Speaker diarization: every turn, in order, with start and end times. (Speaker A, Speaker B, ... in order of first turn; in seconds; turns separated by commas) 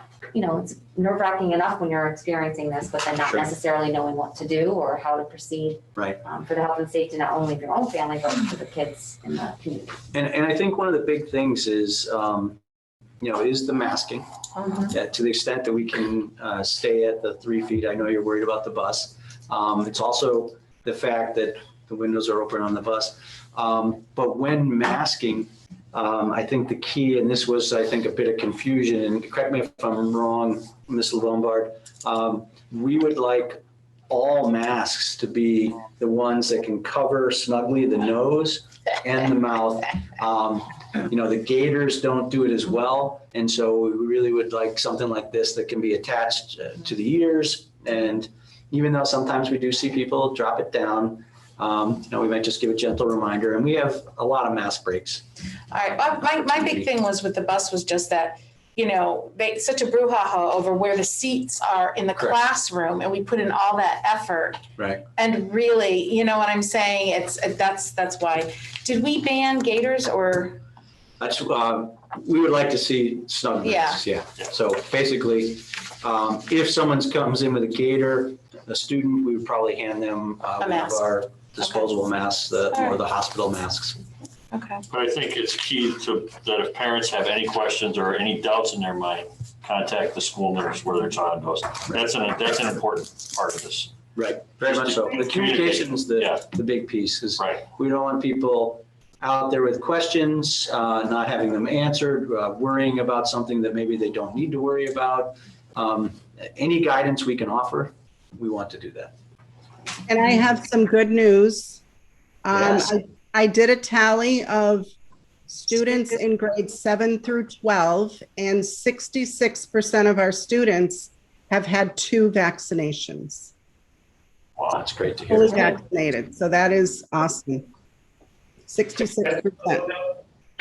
Speaker A: 0.3-10.0, Speaker B: 10.1-12.6, Speaker B: 13.2-55.2, Speaker C: 55.7-64.6, Speaker B: 56.3-56.9, Speaker B: 64.8-65.0, Speaker C: 65.2-70.6, Speaker B: 71.2-84.0, Speaker C: 73.6-74.0, Speaker C: 80.6-81.1, Speaker C: 81.6-82.0, Speaker C: 82.7-83.0, Speaker C: 84.5-84.8, Speaker D: 84.9-93.9, Speaker B: 94.2-109.1, Speaker D: 94.7-96.4, Speaker E: 110.1-111.8, Speaker E: 112.4-114.9, Speaker B: 112.5-112.9, Speaker E: 115.5-123.5, Speaker B: 124.7-125.7, Speaker E: 125.3-127.7, Speaker E: 128.7-129.9